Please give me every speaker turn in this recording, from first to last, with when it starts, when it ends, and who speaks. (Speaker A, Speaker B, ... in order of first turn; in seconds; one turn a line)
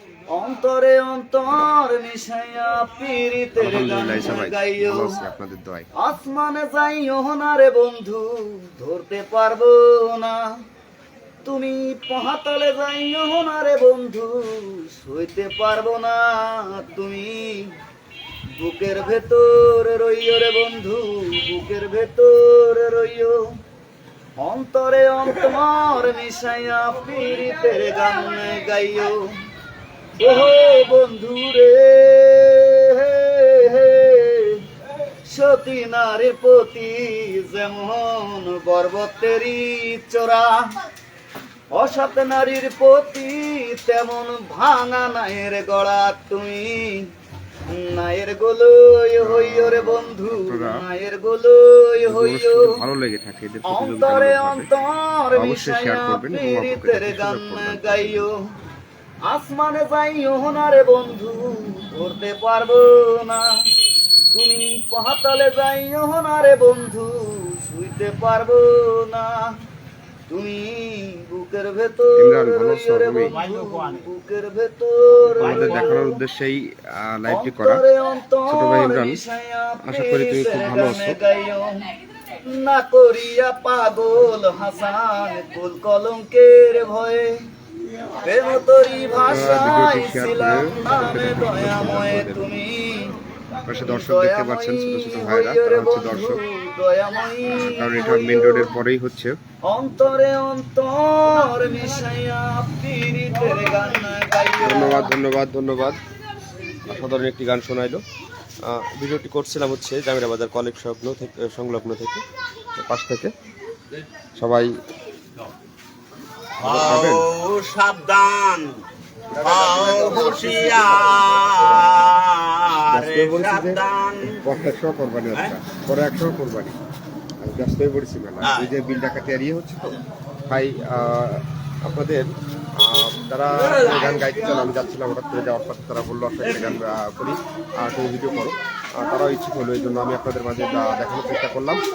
Speaker A: 0.3-5.2
Speaker B: 3.6-5.9
Speaker A: 6.0-10.4
Speaker A: 11.4-17.7
Speaker A: 18.6-23.4
Speaker A: 24.4-29.2
Speaker A: 30.2-34.6
Speaker A: 35.3-40.5
Speaker A: 41.7-47.0
Speaker A: 47.7-52.8
Speaker B: 49.2-50.7
Speaker B: 52.0-54.7
Speaker A: 53.7-58.4
Speaker B: 55.3-58.3
Speaker A: 59.3-63.5
Speaker A: 64.3-69.5
Speaker A: 70.3-76.1
Speaker B: 72.2-73.3
Speaker C: 73.2-74.1
Speaker C: 75.4-76.1
Speaker B: 75.4-77.8
Speaker A: 77.3-81.9
Speaker B: 78.5-79.2
Speaker B: 79.8-81.2
Speaker A: 82.5-87.3
Speaker A: 88.2-93.1
Speaker B: 89.3-92.4
Speaker B: 93.7-96.4
Speaker A: 93.8-98.7
Speaker B: 97.5-99.3
Speaker A: 99.7-105.1
Speaker B: 104.6-106.0
Speaker B: 106.8-108.0
Speaker B: 108.7-112.2
Speaker B: 112.8-113.3
Speaker B: 114.3-114.7
Speaker B: 116.6-117.2
Speaker C: 116.6-118.7
Speaker A: 119.3-121.2
Speaker C: 119.4-124.4
Speaker B: 121.5-121.9
Speaker B: 122.9-126.7
Speaker B: 127.4-130.0
Speaker C: 128.4-128.7
Speaker B: 130.5-141.8